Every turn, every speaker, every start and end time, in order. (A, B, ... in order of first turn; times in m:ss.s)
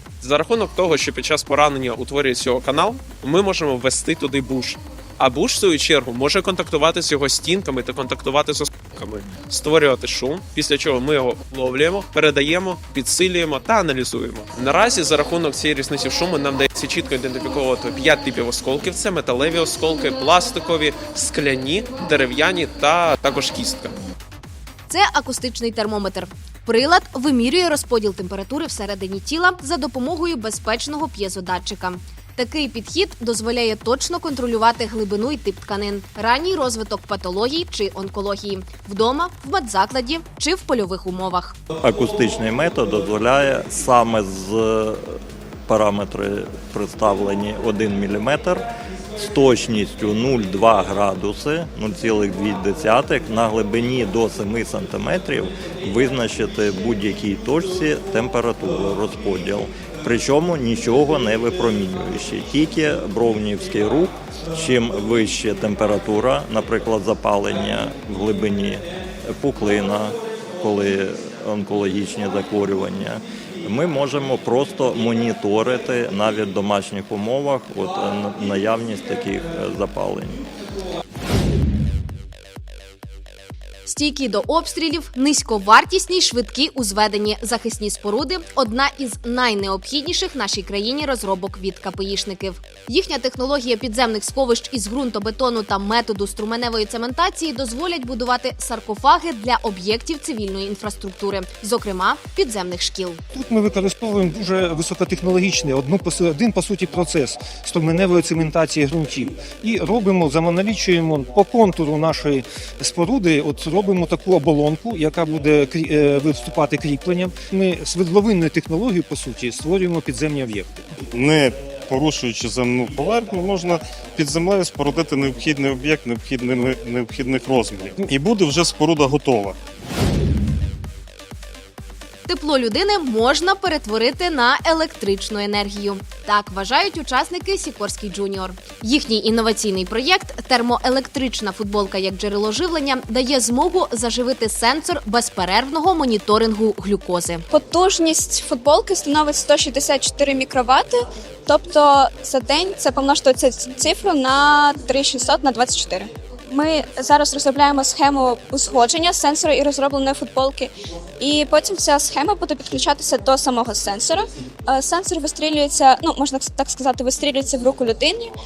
0:00.2-0:23.9 A
0:24.9-0:41.6 B
0:41.8-0:48.7 C
0:49.2-1:20.4 C
1:23.9-1:43.2 B
1:43.3-2:00.9 D
2:01.1-2:09.6 E
2:12.3-2:27.4 B
2:27.5-2:48.3 F